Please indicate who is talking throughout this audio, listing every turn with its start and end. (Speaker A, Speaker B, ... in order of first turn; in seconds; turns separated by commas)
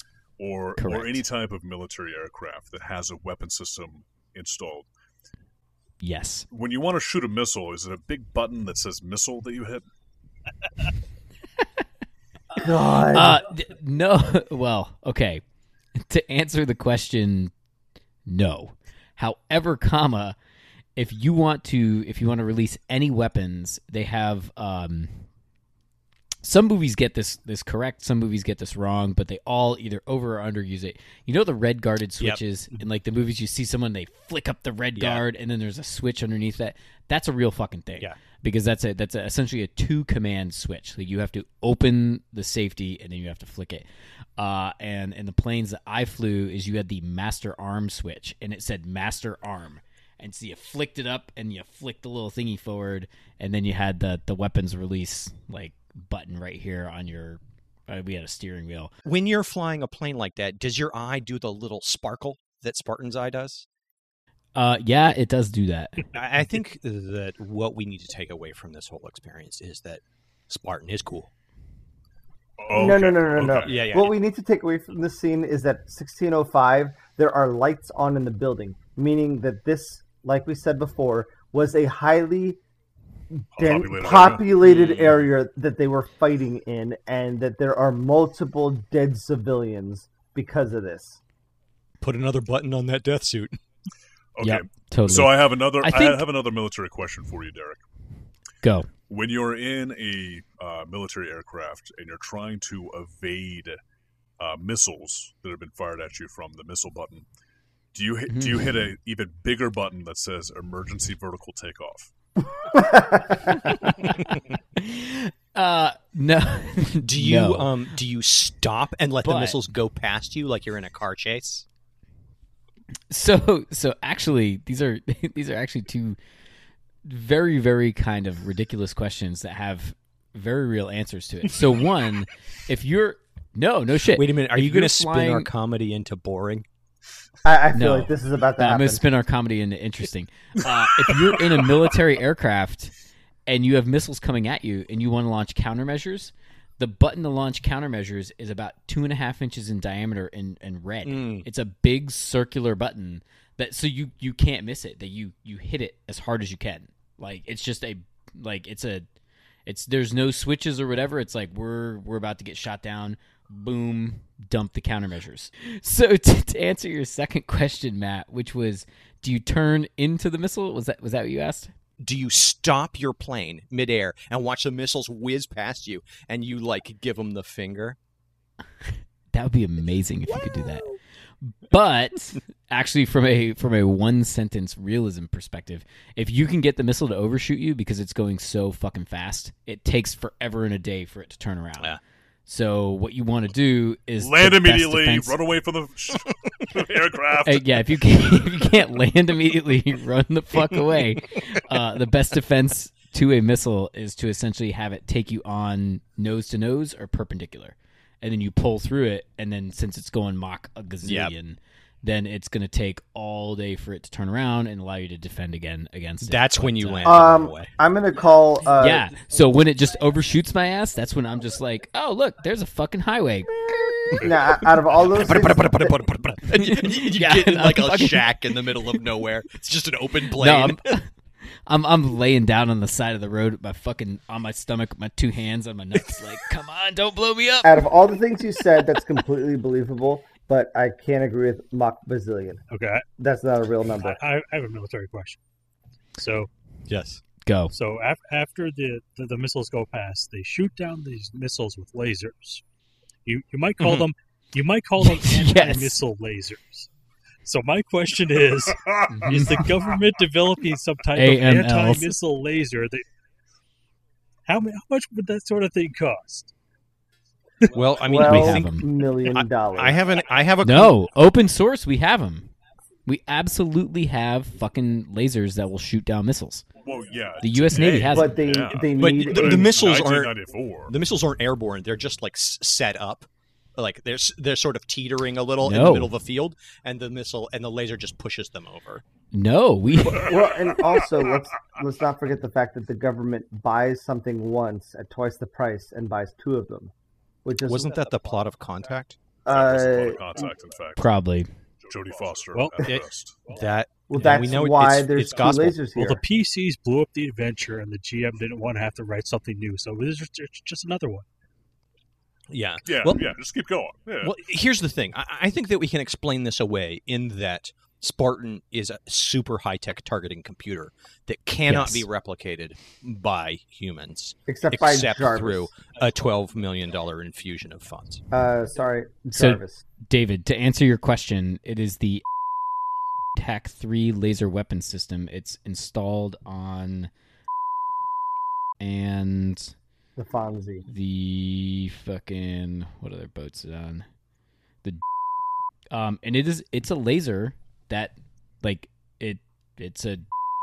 Speaker A: 0.4-4.9, Speaker B: 0.8-1.2, Speaker B: 6.0-6.5, Speaker A: 6.5-9.8, Speaker C: 12.6-13.5, Speaker B: 12.9-15.4, Speaker B: 16.0-17.5, Speaker B: 18.2-20.4, Speaker B: 20.9-25.2, Speaker B: 26.4-43.9, Speaker D: 35.0-35.2, Speaker B: 44.4-58.9, Speaker D: 59.0-63.6, Speaker B: 64.5-66.0, Speaker D: 66.1-71.3, Speaker A: 72.6-73.9, Speaker C: 72.7-82.6, Speaker D: 73.6-74.1, Speaker C: 83.3-91.2, Speaker A: 83.5-84.5, Speaker D: 84.6-85.2, Speaker D: 92.0-93.6, Speaker A: 94.3-97.8, Speaker B: 94.4-96.2, Speaker B: 98.6-98.9, Speaker A: 99.1-103.8, Speaker A: 104.4-107.2, Speaker A: 107.9-112.1, Speaker B: 108.3-108.9, Speaker C: 112.7-113.3, Speaker B: 113.4-117.7, Speaker D: 117.0-121.7, Speaker B: 119.2-119.6, Speaker B: 123.1-126.2, Speaker B: 127.0-135.5, Speaker D: 134.1-136.7, Speaker C: 137.4-139.1, Speaker B: 137.7-142.9, Speaker B: 143.5-159.1, Speaker D: 151.0-151.5, Speaker B: 159.7-171.7, Speaker D: 172.0-178.0, Speaker B: 178.8-191.9, Speaker B: 192.5-195.4, Speaker A: 194.2-197.9, Speaker B: 197.4-217.4, Speaker D: 211.0-211.3, Speaker D: 216.2-217.7, Speaker C: 217.0-219.2, Speaker B: 218.7-224.3, Speaker C: 224.1-226.0, Speaker D: 225.1-230.9, Speaker B: 226.5-228.3, Speaker B: 230.3-231.1, Speaker B: 231.7-237.9, Speaker C: 237.6-242.6, Speaker E: 242.7-243.0, Speaker C: 243.2-244.2, Speaker E: 243.9-245.4, Speaker E: 246.2-246.5, Speaker D: 246.9-247.2, Speaker B: 247.4-247.7, Speaker E: 247.7-252.6, Speaker E: 253.2-256.9, Speaker D: 253.8-254.1, Speaker B: 255.0-256.0, Speaker E: 257.4-263.0, Speaker B: 259.1-259.7, Speaker B: 261.1-262.1, Speaker E: 264.5-266.5, Speaker D: 267.7-268.7, Speaker C: 268.0-270.1, Speaker B: 268.1-268.9, Speaker D: 269.2-270.9, Speaker B: 270.6-272.5, Speaker B: 273.1-276.7, Speaker A: 276.8-280.9, Speaker B: 277.4-278.4, Speaker C: 278.1-279.7, Speaker D: 278.9-280.4, Speaker D: 280.9-289.0, Speaker B: 285.6-286.1, Speaker B: 289.3-290.3, Speaker C: 290.0-296.9, Speaker C: 297.4-298.0, Speaker D: 297.6-299.2, Speaker C: 299.4-300.5, Speaker A: 299.5-301.1, Speaker B: 301.0-301.5, Speaker A: 301.8-303.4, Speaker E: 302.5-302.9, Speaker D: 302.8-305.8, Speaker C: 304.1-306.2, Speaker E: 305.9-311.2, Speaker D: 312.5-313.3, Speaker A: 312.9-314.3, Speaker D: 314.2-328.2, Speaker B: 321.7-322.1, Speaker C: 324.5-325.7, Speaker C: 328.3-329.8, Speaker B: 329.3-332.2, Speaker B: 333.4-337.1, Speaker B: 338.8-339.7, Speaker C: 340.1-340.9, Speaker B: 340.9-344.1, Speaker B: 345.9-350.2